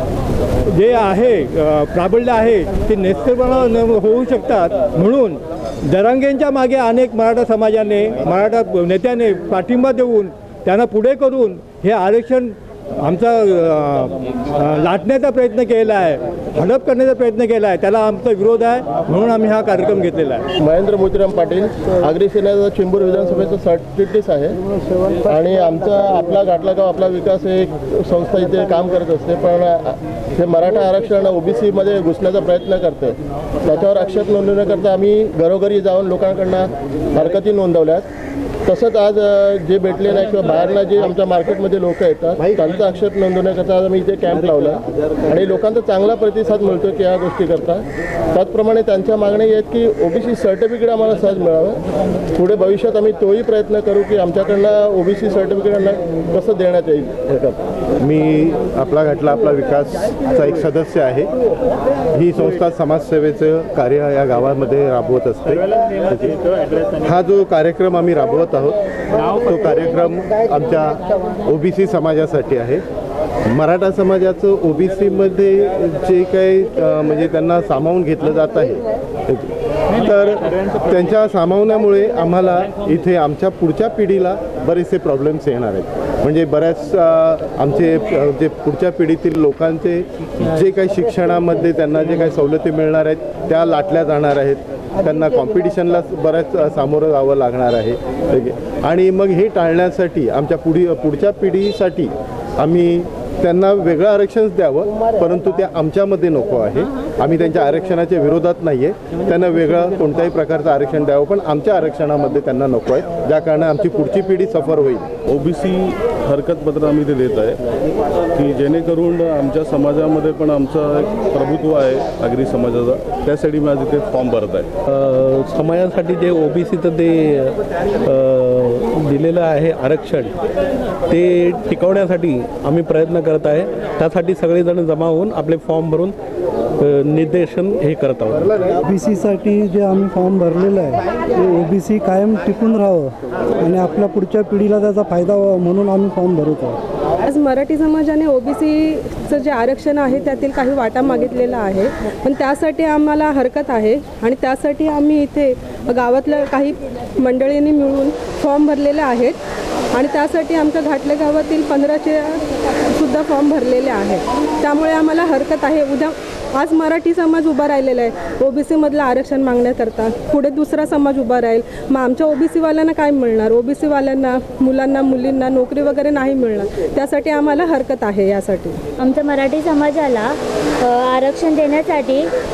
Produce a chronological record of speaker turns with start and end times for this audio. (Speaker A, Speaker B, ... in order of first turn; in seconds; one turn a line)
Speaker A: 0.7-20.5
Speaker B: 20.6-24.6
Speaker B: 25.3-38.1
Speaker B: 38.7-51.8
Speaker B: 52.3-57.6
Speaker C: 58.0-61.3
Speaker C: 62.1-66.4
Speaker C: 67.0-68.8
Speaker C: 69.4-72.8
Speaker C: 73.5-115.1
Speaker D: 115.3-117.6
Speaker D: 118.3-124.7
Speaker E: 124.8-130.3
Speaker E: 131.1-136.2
Speaker E: 136.8-138.8
Speaker F: 138.8-146.8
Speaker G: 147.3-159.4
Speaker G: 159.9-162.4
Speaker G: 162.9-178.8
Speaker H: 179.0-182.3